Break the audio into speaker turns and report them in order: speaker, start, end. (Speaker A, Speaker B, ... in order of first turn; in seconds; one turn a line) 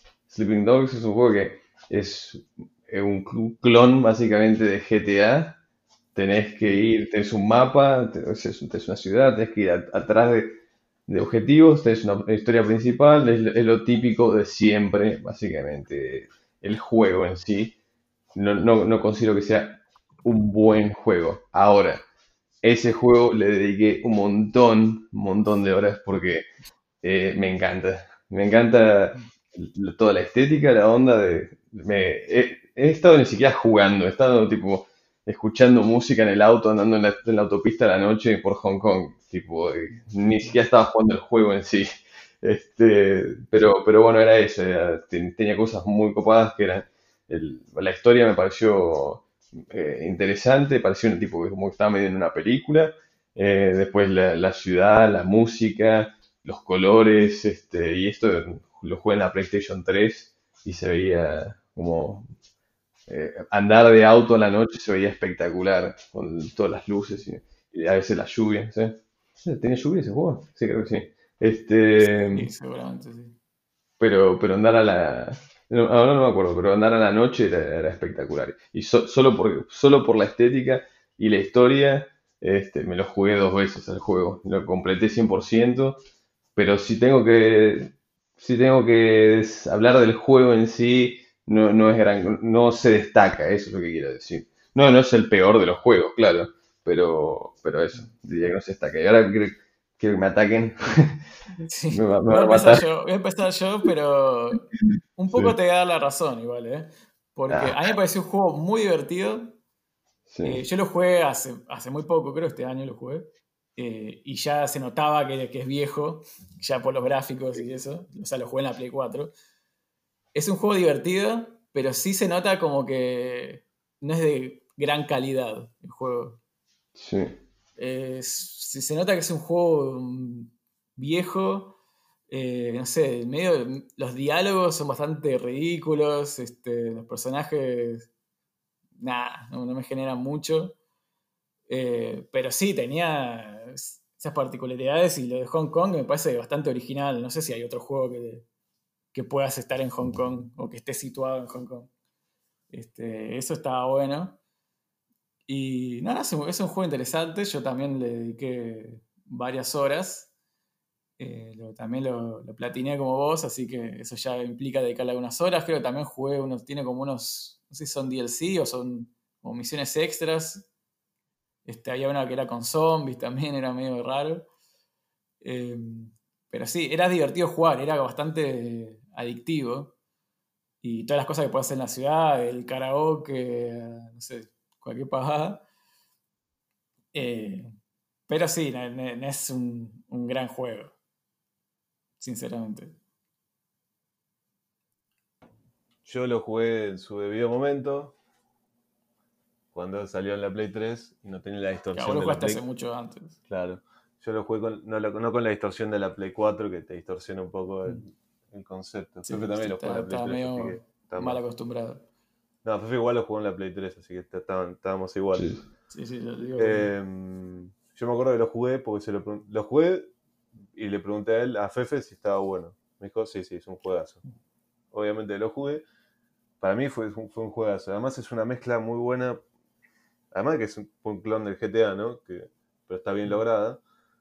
Speaker A: 0.3-5.6
Speaker A: 6.2-17.8
Speaker A: 18.3-22.0
Speaker A: 22.6-26.5
Speaker A: 27.0-62.3
Speaker A: 63.1-72.5
Speaker B: 72.0-73.4
Speaker A: 74.0-86.0
Speaker A: 86.5-101.2
Speaker B: 101.7-109.6
Speaker A: 101.9-102.8
Speaker A: 105.3-105.5
Speaker A: 107.5-107.8
Speaker A: 110.3-110.6
Speaker B: 110.4-119.3
Speaker B: 120.3-126.4
Speaker A: 127.0-127.4
Speaker B: 127.8-131.8
Speaker B: 132.3-138.1
Speaker B: 139.0-140.8
Speaker B: 141.7-148.4
Speaker B: 149.1-151.9
Speaker B: 152.7-154.4
Speaker B: 155.5-160.3
Speaker B: 161.2-170.7
Speaker B: 171.7-174.5
Speaker B: 175.4-179.9
Speaker B: 180.8-185.7
Speaker B: 187.1-187.7
Speaker B: 188.3-190.9
Speaker B: 192.2-193.0
Speaker C: 196.1-198.2
Speaker C: 199.7-202.6
Speaker B: 202.0-203.4
Speaker C: 203.5-211.4
Speaker B: 209.3-212.0
Speaker C: 212.6-215.6
Speaker A: 215.3-215.7
Speaker B: 215.9-216.9
Speaker C: 216.6-220.1
Speaker C: 220.7-224.2
Speaker C: 224.9-225.8
Speaker C: 226.6-229.4
Speaker C: 230.3-233.8